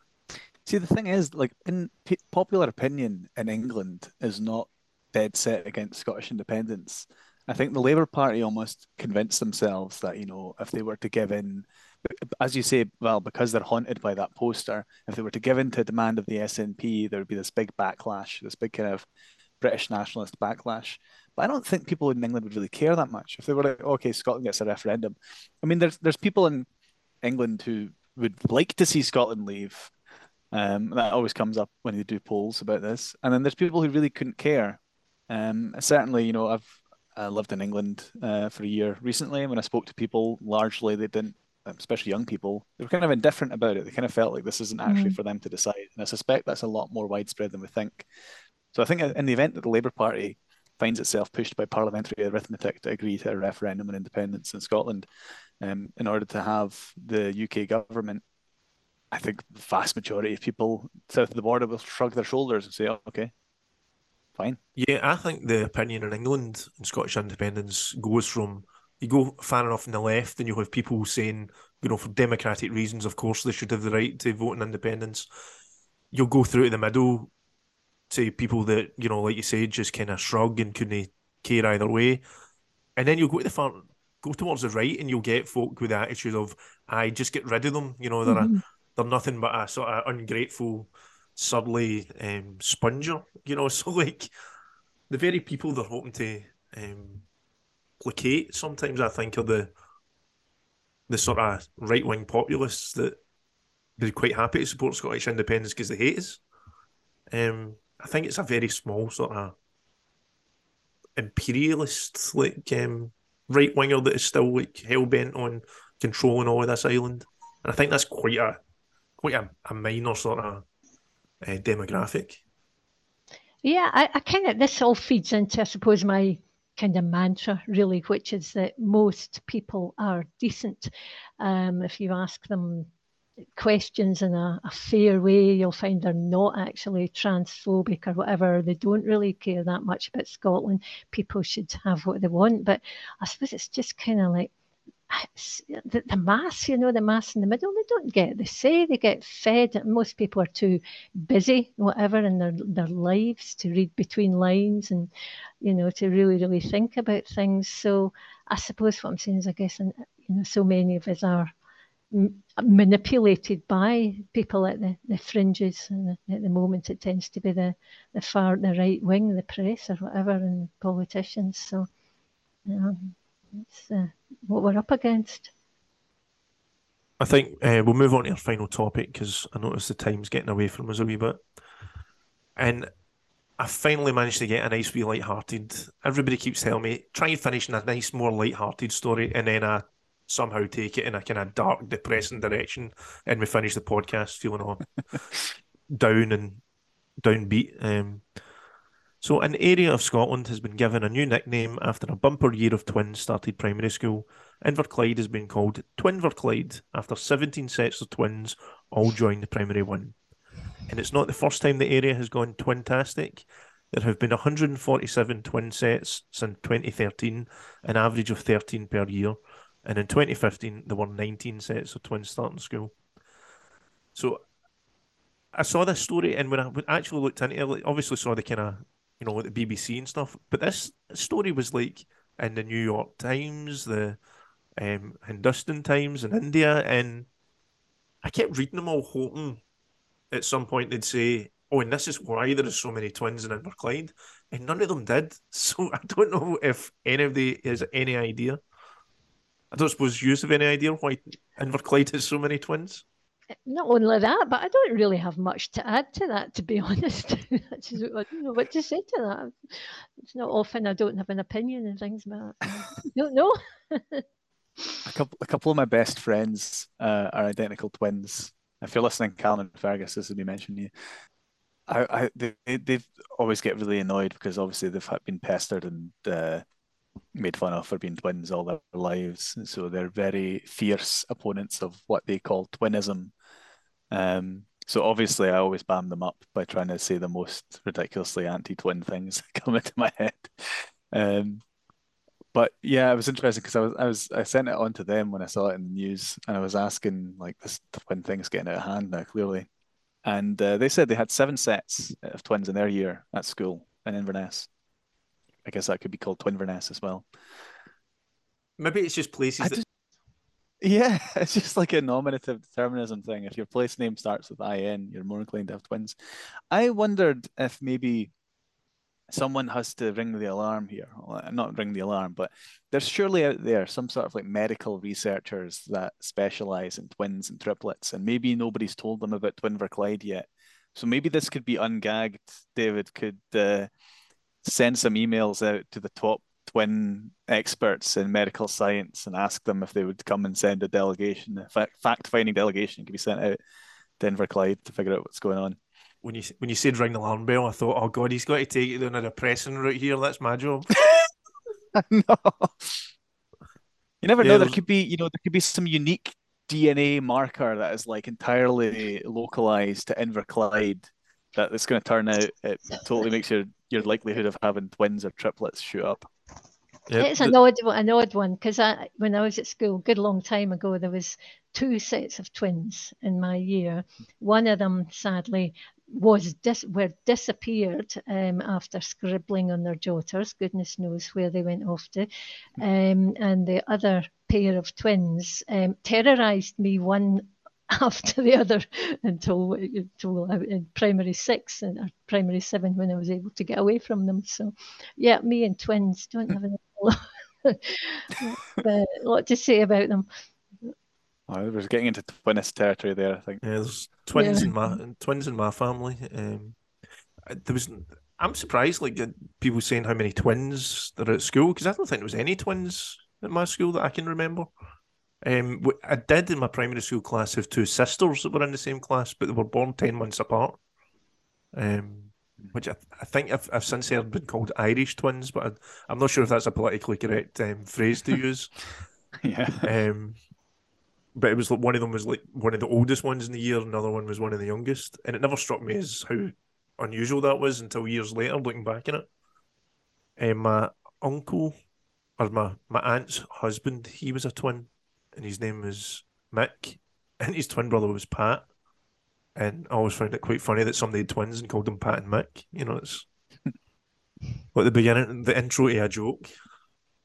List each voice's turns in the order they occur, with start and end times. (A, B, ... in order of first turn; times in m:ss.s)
0:00.6-0:19.0 A
0:19.6-0:26.7 A
0:27.2-0:29.9 A
0:30.5-0:48.1 A
0:44.8-0:45.2 B
0:48.7-0:55.1 A
0:55.6-0:58.2 A
0:59.1-1:03.3 A
1:04.8-1:15.3 C
1:16.1-1:17.3 C
1:18.1-1:22.2 C
1:23.0-1:34.3 C
1:28.3-1:28.6 B
1:35.1-1:37.3 C
1:38.0-1:39.7 C
1:41.1-1:43.2 C
1:44.0-1:46.4 C
1:47.3-1:49.6 C
1:51.2-1:58.6 C
1:59.2-2:00.6 C
2:01.4-2:02.4 C
2:03.6-2:12.9 B
2:13.6-2:24.5 B
2:25.1-2:35.1 B
2:35.6-2:41.5 B
2:42.1-2:51.9 B
2:52.7-2:55.5 B
2:57.2-3:01.4 C
3:02.6-3:02.9 C
3:03.6-3:14.9 C
3:15.9-3:16.6 C
3:17.2-3:18.2 C
3:19.2-3:30.2 C
3:30.9-3:42.9 C
3:44.2-3:44.4 C
3:45.5-3:54.2 C
3:54.8-3:57.3 C
3:58.2-3:59.6 C
4:00.3-4:08.6 C
4:09.7-4:13.0 C
4:13.7-4:24.2 B
4:24.8-4:25.0 B
4:25.0-4:30.9 A
4:31.9-4:36.6 A
4:37.4-4:43.3 A
4:44.1-4:51.6 A
4:52.5-4:59.7 A
5:00.2-5:04.7 A
5:05.6-5:07.3 A
5:08.8-5:09.8 C
5:09.6-5:09.8 A
5:10.8-5:16.2 A
5:16.7-5:18.3 A
5:19.3-5:33.9 A
5:34.6-5:43.6 A
5:44.2-5:45.8 A
5:46.2-5:50.9 C
5:51.9-5:53.0 A
5:54.2-6:06.2 A
5:54.4-5:54.8 C
6:07.1-6:07.6 C
6:07.2-6:40.3 B
6:41.5-6:43.6 A
6:43.6-6:46.8 C
6:44.4-6:44.7 B
6:47.5-6:54.7 C
6:55.4-7:00.8 C
7:01.7-7:08.7 C
7:09.4-7:09.9 A
7:09.8-7:10.4 C
7:11.4-7:19.3 C
7:20.4-7:21.7 C
7:22.4-7:28.7 C
7:29.6-7:33.3 C
7:34.7-7:36.5 C